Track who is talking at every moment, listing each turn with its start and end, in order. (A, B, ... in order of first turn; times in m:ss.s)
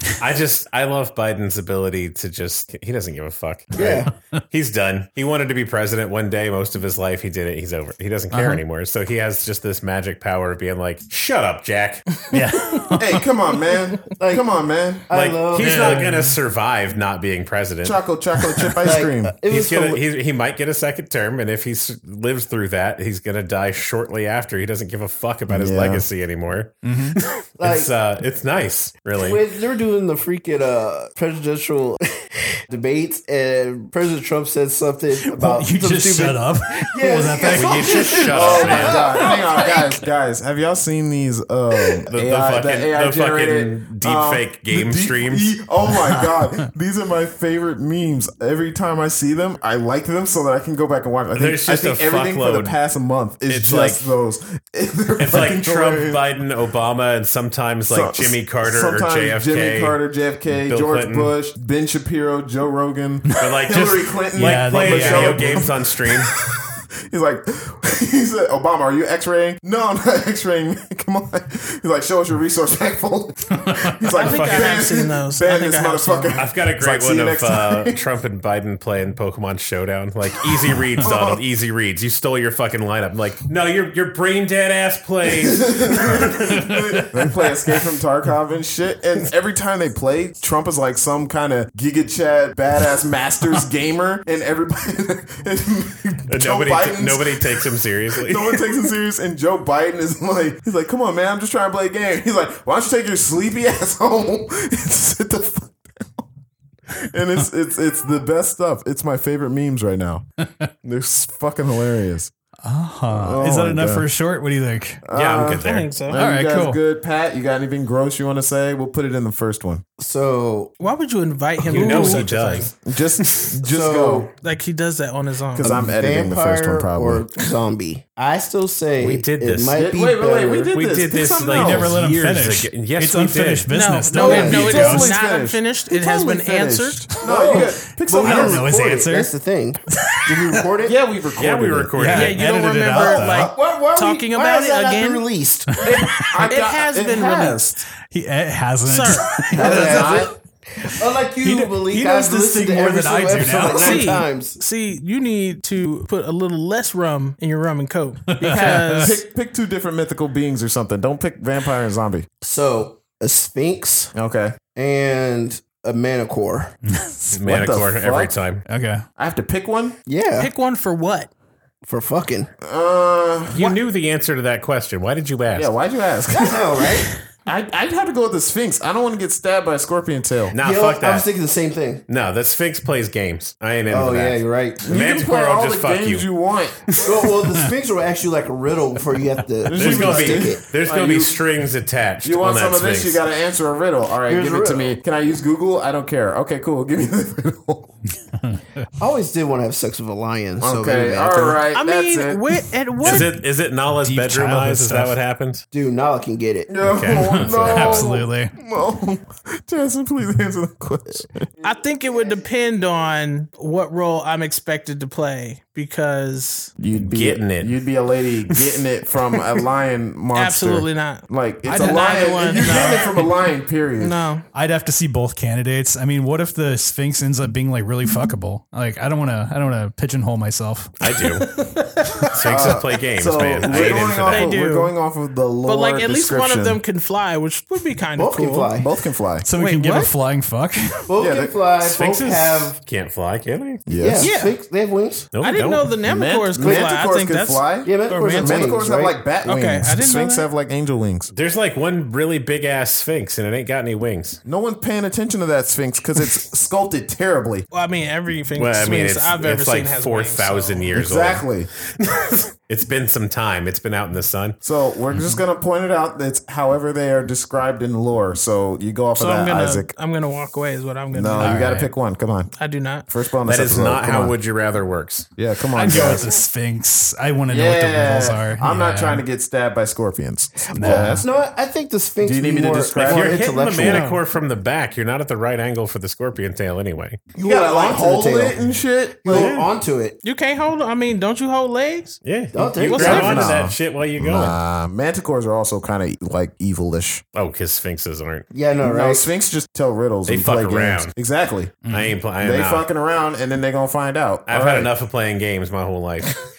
0:00.2-0:12.1 A
0:03.7-0:04.1 B
0:08.3-0:08.6 C
0:12.2-0:12.8 D
0:12.3-0:13.3 C
0:13.0-0:15.1 E
0:14.2-0:14.5 B
0:15.1-0:16.0 B
0:15.1-0:18.0 A
0:15.6-0:16.4 C
0:17.8-0:19.4 E
0:18.8-0:20.0 B
0:19.5-0:29.4 A
0:25.5-0:26.1 E
0:26.8-0:27.2 C
0:27.6-0:27.9 B
0:29.2-0:39.8 B
0:35.2-0:39.0 C
0:37.5-0:39.1 A
0:38.3-0:56.2 E
0:42.1-0:45.5 A
0:45.9-0:46.5 C
0:51.3-0:52.8 A
0:53.5-0:54.1 A
0:55.2-1:00.0 A
0:57.9-1:18.0 E
1:00.6-1:01.3 A
1:03.4-1:06.3 A
1:04.3-1:05.7 C
1:13.6-1:14.1 C
1:14.1-1:16.4 D
1:14.2-1:14.8 A
1:16.4-1:26.8 A
1:21.0-1:21.4 E
1:25.4-1:46.2 E
1:36.3-1:38.8 A
1:46.9-1:50.2 E
1:50.8-1:52.3 E
1:52.6-1:55.0 C
1:53.1-1:54.1 E
1:55.0-1:59.8 E
1:55.1-1:55.9 A
1:55.6-1:56.2 D
1:56.1-1:56.8 C
2:00.0-2:00.7 B
2:00.8-2:02.7 D
2:01.6-2:03.5 A
2:01.9-2:04.3 E
2:03.7-2:04.3 B
2:04.4-2:05.7 D
2:05.5-2:07.2 E
2:05.6-2:10.7 B
2:09.0-2:09.8 A
2:09.7-2:12.0 E
2:10.7-2:13.7 A
2:11.5-2:15.1 C
2:13.7-2:17.2 D
2:14.2-2:14.8 B
2:14.2-2:18.7 E
2:17.2-2:20.9 B
2:17.5-2:19.3 C
2:20.0-2:20.6 C
2:20.8-2:22.0 E
2:21.2-2:22.5 A
2:22.0-2:23.5 C
2:22.1-2:25.3 D
2:23.3-2:25.8 B
2:25.7-2:26.3 C
2:25.8-2:27.8 E
2:26.4-2:27.8 D
2:28.0-2:30.3 C
2:28.8-2:29.5 D
2:29.5-2:34.6 B
2:29.5-2:30.3 E
2:30.8-2:34.2 C
2:33.6-2:39.2 D
2:38.3-2:39.2 C
2:38.4-2:42.2 E
2:42.4-2:44.1 B
2:44.1-2:44.6 E
2:44.7-2:46.8 B
2:46.9-2:47.4 C
2:47.3-2:48.6 A
2:47.4-2:48.3 E
2:48.7-2:49.0 C
2:49.2-2:50.0 E
2:50.1-2:50.5 B
2:50.4-2:51.3 D
2:51.8-2:52.5 B
2:52.6-2:53.6 E
2:53.5-2:55.7 A
2:53.5-2:53.8 D
2:55.5-2:56.7 E
2:56.3-2:57.1 B
2:57.4-3:00.5 E
3:00.5-3:01.3 A
3:00.6-3:02.0 B
3:02.1-3:06.3 A
3:03.9-3:04.8 B
3:04.8-3:06.8 E
3:06.9-3:07.2 A
3:07.0-3:10.6 B
3:09.6-3:11.4 E
3:09.7-3:13.2 A
3:12.2-3:17.9 E
3:14.3-3:15.0 B
3:19.0-3:21.6 B
3:20.6-3:22.4 E
3:21.7-3:23.3 D
3:23.0-3:25.6 A
3:23.0-3:23.3 C
3:23.9-3:25.2 C
3:25.7-3:26.7 B
3:26.7-3:31.5 E
3:26.8-3:28.1 A
3:27.4-3:28.5 C
3:31.6-3:36.7 D
3:36.8-3:44.3 E
3:37.1-3:37.8 A
3:38.5-3:38.8 A
3:40.3-3:43.3 D
3:42.5-3:43.0 C
3:44.0-3:44.5 D
3:44.5-3:50.9 C
3:51.0-3:51.5 A
3:51.3-3:52.6 D
3:52.3-3:54.5 A
3:52.4-3:56.8 E
3:53.7-3:54.9 D
3:55.6-3:58.7 D
3:58.2-3:58.9 B
3:58.8-3:59.5 E
3:59.4-4:01.1 C
3:59.5-4:00.1 D
4:01.1-4:02.8 B
4:01.2-4:01.6 E
4:01.8-4:03.8 A
4:03.8-4:04.3 E
4:04.0-4:05.3 B
4:04.2-4:04.6 D
4:05.3-4:06.0 A
4:05.4-4:08.9 D
4:06.0-4:11.3 E
4:06.5-4:06.9 B
4:07.8-4:09.3 B
4:09.4-4:10.5 D
4:11.3-4:14.4 A
4:14.4-4:17.7 E
4:17.7-4:21.0 D
4:18.5-4:24.6 A
4:20.9-4:21.7 E
4:24.6-4:29.9 E
4:29.2-4:31.7 D
4:31.1-4:32.5 E
4:31.4-4:31.9 C
4:32.6-4:33.1 D
4:33.1-4:34.3 E
4:33.4-4:36.3 A
4:35.4-4:36.3 E
4:35.8-4:39.2 C
4:37.5-4:41.2 E
4:40.7-4:44.1 B
4:40.7-4:41.2 C
4:42.2-4:43.5 E
4:43.0-4:47.2 A
4:43.8-4:44.2 D
4:47.3-4:49.6 E
4:47.4-4:48.6 B
4:49.2-4:50.2 B
4:49.3-4:49.7 A
4:50.2-4:52.2 D
4:52.2-4:54.6 A
4:52.5-4:53.6 B
4:53.0-4:57.2 E
4:57.3-4:58.5 A
4:58.5-4:59.3 B
4:58.8-5:01.8 E
5:00.3-5:01.1 A
5:01.8-5:02.2 C
5:01.9-5:02.8 A
5:02.4-5:04.9 E
5:04.5-5:06.4 A